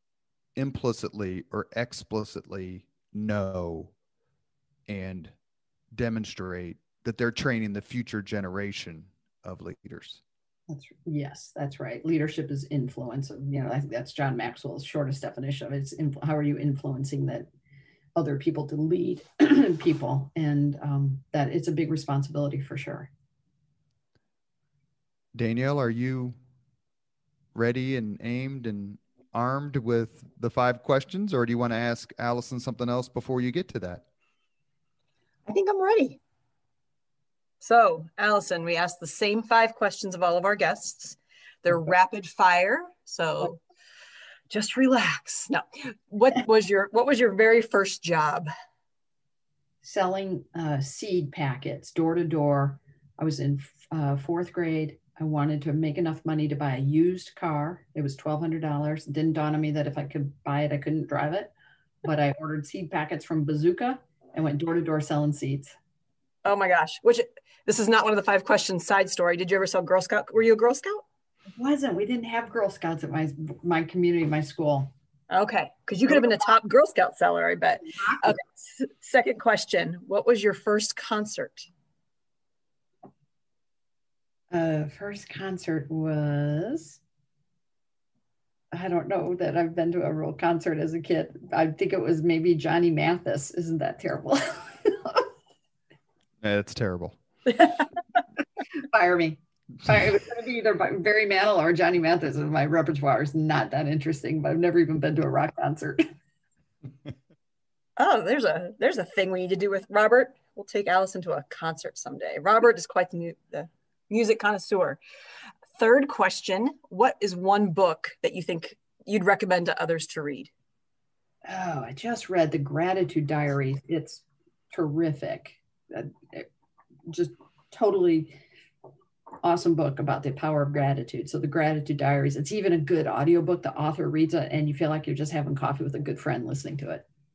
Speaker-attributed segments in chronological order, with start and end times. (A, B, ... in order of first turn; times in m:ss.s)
0:00.6-0:03.9 A
0:04.9-0:05.3 A
0:05.9-0:10.2 A
0:10.7-0:17.5 B
0:18.2-0:23.1 B
0:25.3-0:26.4 A
0:27.5-0:34.0 A
0:35.4-0:36.2 C
0:37.6-0:43.6 C
0:44.5-0:48.5 C
0:49.8-1:01.5 B
1:02.0-1:05.8 B
1:06.4-1:11.0 C
1:11.5-1:14.9 B
1:15.3-1:21.7 C
1:17.9-1:18.4 B
1:24.5-1:27.0 B
1:28.7-1:35.3 B
1:36.4-1:37.2 A
1:38.7-1:46.0 B
1:48.0-1:55.0 C
1:55.7-2:00.5 C
2:01.4-2:06.5 B
2:07.1-2:08.4 B
2:09.4-2:17.0 B